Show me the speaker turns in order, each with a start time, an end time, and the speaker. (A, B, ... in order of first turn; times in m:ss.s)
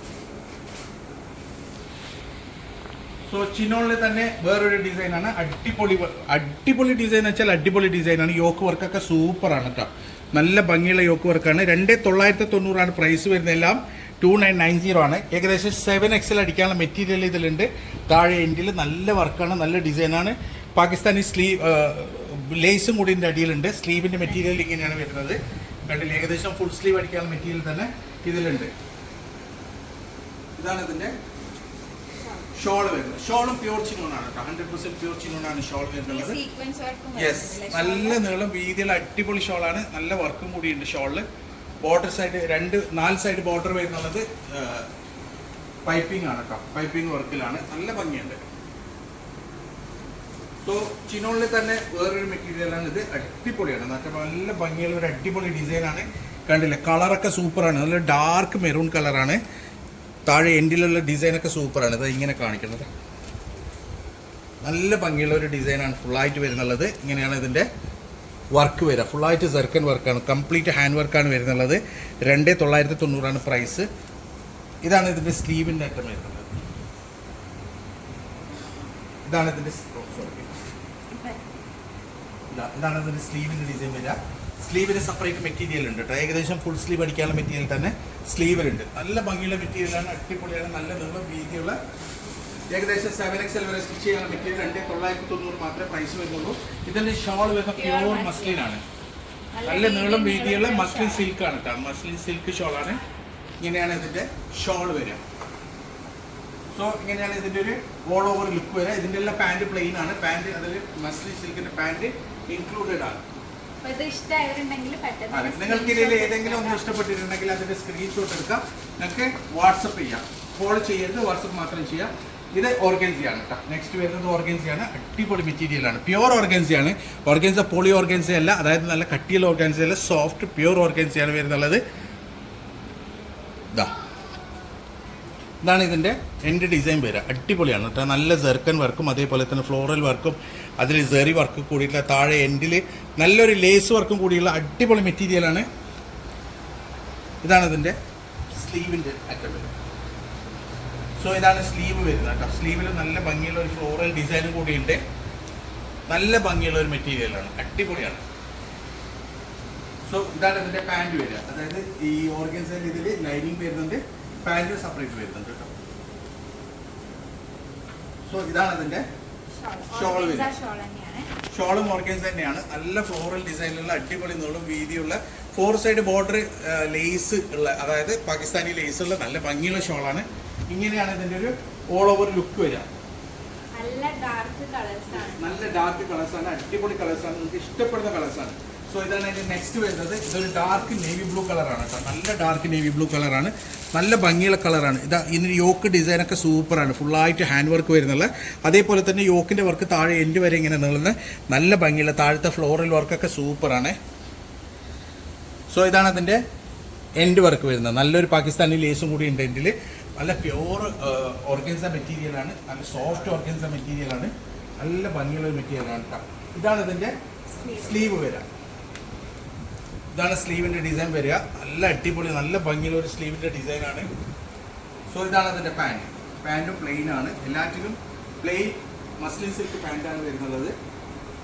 0:03.3-0:28.7 A
0:30.6-0:31.1 A
0:32.5-0:36.4 A
0:36.0-0:38.2 B
0:37.1-0:41.2 A
0:41.8-0:44.9 A
0:45.8-0:48.4 A
0:50.6-0:59.4 A
1:00.2-1:02.9 A
1:04.6-1:07.7 A
1:08.5-1:13.9 A
1:14.8-1:16.6 A
1:19.2-1:20.5 A
1:21.1-1:21.4 B
1:22.5-1:31.8 A
1:32.7-1:38.8 A
1:37.7-1:38.7 B
1:39.5-1:41.3 B
1:39.6-1:43.0 A
1:43.6-1:45.2 A
1:46.7-1:53.2 A
1:53.8-1:56.8 B
1:55.3-2:11.8 A
2:15.6-2:25.6 A
2:27.4-2:28.0 A
2:28.5-2:29.7 A
2:31.2-2:35.0 A
2:36.1-2:38.2 A
2:40.0-2:45.7 A
2:48.3-2:49.0 A
2:49.5-2:51.3 B
2:49.9-2:50.5 A
2:51.5-3:02.9 A
3:03.7-3:05.6 B
3:05.1-3:24.0 A
3:25.7-3:26.4 A
3:27.2-3:38.5 A
3:37.5-3:38.2 B
3:40.1-3:44.1 A
3:45.1-3:50.7 A